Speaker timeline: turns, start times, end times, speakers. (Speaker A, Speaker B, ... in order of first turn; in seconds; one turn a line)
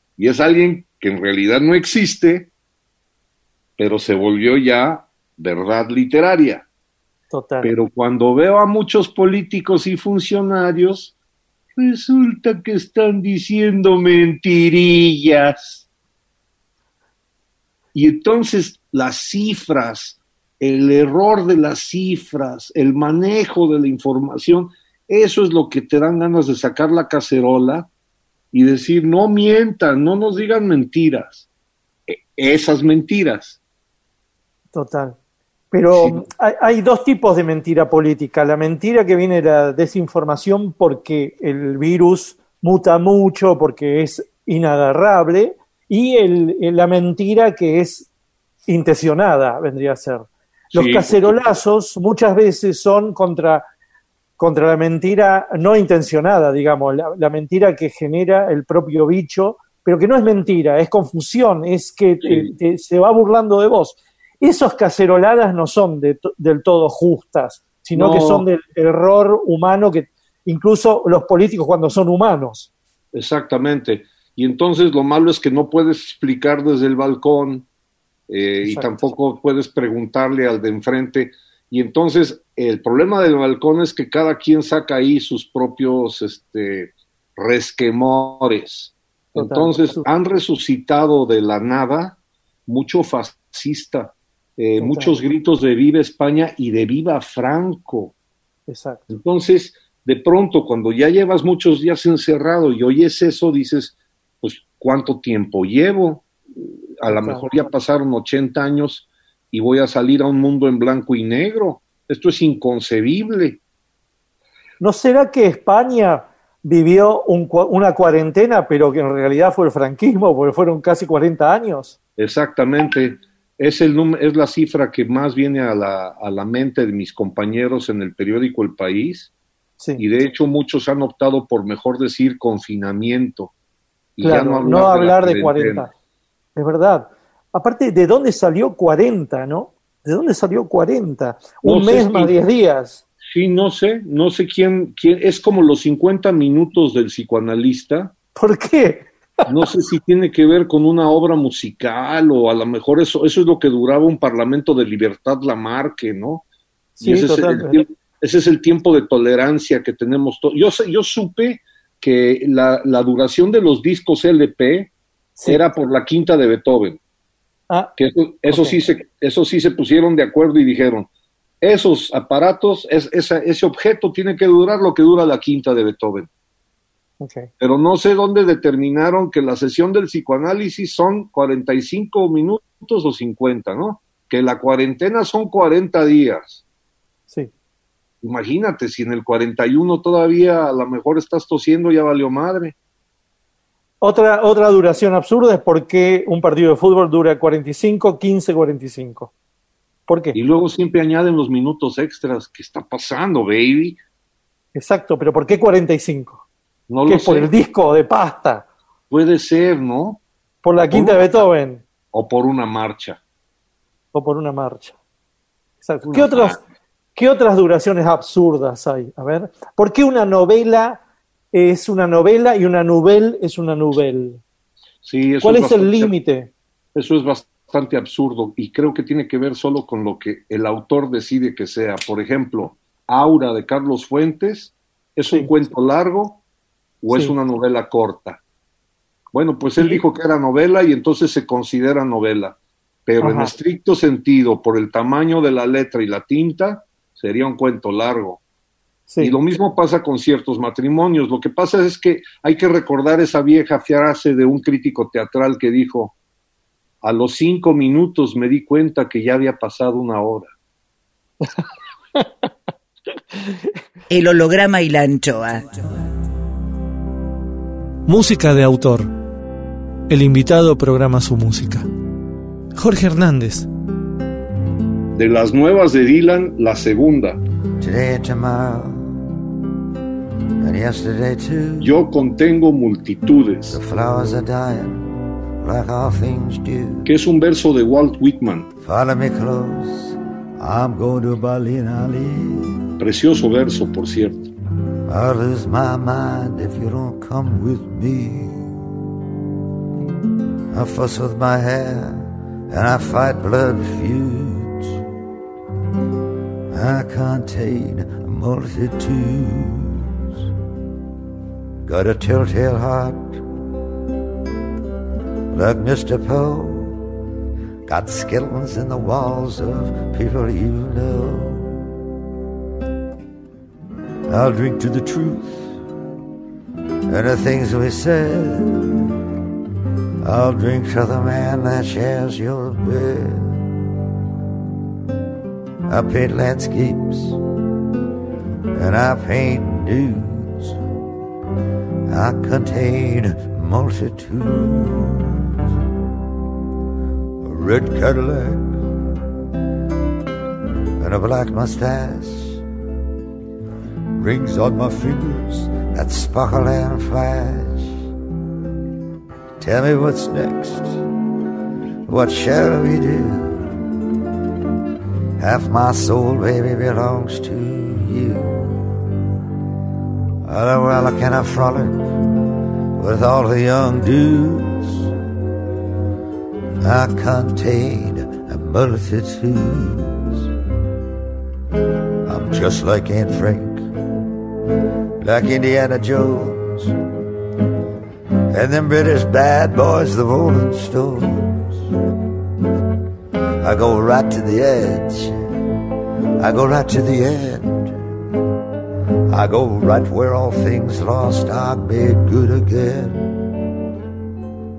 Speaker A: 0.2-2.5
Speaker A: 3.8-6.7
Speaker B: 7.3-7.7
Speaker A: 7.6-11.2
Speaker A: 11.8-15.9
Speaker A: 17.9-27.9
Speaker A: 28.5-31.5
Speaker A: 32.1-33.6
Speaker B: 34.7-35.2
Speaker B: 35.7-48.1
Speaker A: 35.9-36.2
Speaker B: 48.7-53.6
Speaker A: 50.7-51.4
Speaker B: 54.4-72.7
Speaker A: 62.2-62.5
Speaker A: 67.9-68.4
Speaker A: 73.1-77.7
Speaker A: 78.3-98.1
Speaker B: 78.7-79.1
Speaker B: 89.3-90.1
Speaker B: 94.8-95.2
Speaker B: 98.7-99.1
Speaker A: 99.1-113.6
Speaker B: 107.1-107.4
Speaker B: 114.8-121.9
Speaker A: 122.2-129.3
Speaker A: 130.0-133.5
Speaker A: 134.2-135.9
Speaker B: 134.2-135.9
Speaker B: 136.6-143.0
Speaker A: 141.6-142.3
Speaker A: 143.3-148.1
Speaker B: 148.4-149.1
Speaker A: 149.5-156.4
Speaker B: 157.0-157.8
Speaker A: 157.0-164.9
Speaker A: 165.4-167.0
Speaker A: 168.0-171.1
Speaker B: 168.5-168.8
Speaker A: 171.6-176.3
Speaker B: 177.2-177.5
Speaker A: 177.6-186.6
Speaker A: 188.2-192.7
Speaker B: 194.0-199.3
Speaker B: 200.1-200.4
Speaker A: 200.3-204.0
Speaker B: 204.7-206.4
Speaker A: 206.9-207.5
Speaker B: 207.1-208.7
Speaker A: 209.1-210.2
Speaker B: 210.6-211.8
Speaker A: 210.8-211.4
Speaker A: 212.1-213.2
Speaker B: 214.1-214.9
Speaker B: 215.8-216.6
Speaker A: 216.1-216.6
Speaker B: 217.2-221.0
Speaker B: 221.5-224.4
Speaker A: 225.0-226.1
Speaker B: 225.4-226.5
Speaker A: 226.9-236.4
Speaker A: 237.0-238.4
Speaker A: 239.3-248.4
Speaker B: 243.2-243.5
Speaker B: 249.1-249.3
Speaker A: 249.2-256.1
Speaker A: 257.0-260.5
Speaker C: 264.1-266.0
Speaker D: 268.1-269.1
Speaker D: 270.1-271.9
Speaker D: 272.8-273.7
Speaker A: 275.1-277.4
Speaker E: 277.8-279.3
Speaker E: 280.6-281.9
Speaker A: 281.8-283.8
Speaker E: 283.7-287.1
Speaker A: 287.0-288.7
Speaker E: 288.8-292.8
Speaker A: 293.0-294.5
Speaker E: 295.1-298.7
Speaker E: 300.7-305.0
Speaker E: 306.7-310.3
Speaker E: 311.8-313.4
Speaker E: 315.5-317.1
Speaker E: 317.9-321.8
Speaker E: 324.3-325.8
Speaker E: 327.1-329.0
Speaker E: 330.2-333.7
Speaker E: 335.9-337.4
Speaker E: 338.7-340.8
Speaker E: 342.1-345.6
Speaker E: 347.4-348.9
Speaker E: 351.0-352.6
Speaker E: 354.1-357.9
Speaker E: 359.6-361.0
Speaker E: 362.1-363.8
Speaker E: 365.4-369.0
Speaker E: 370.4-372.3
Speaker E: 372.9-375.1
Speaker E: 376.8-380.5
Speaker E: 382.2-383.9
Speaker E: 385.2-387.0
Speaker E: 388.5-391.9
Speaker E: 393.6-395.6
Speaker E: 396.4-398.1
Speaker E: 399.3-403.3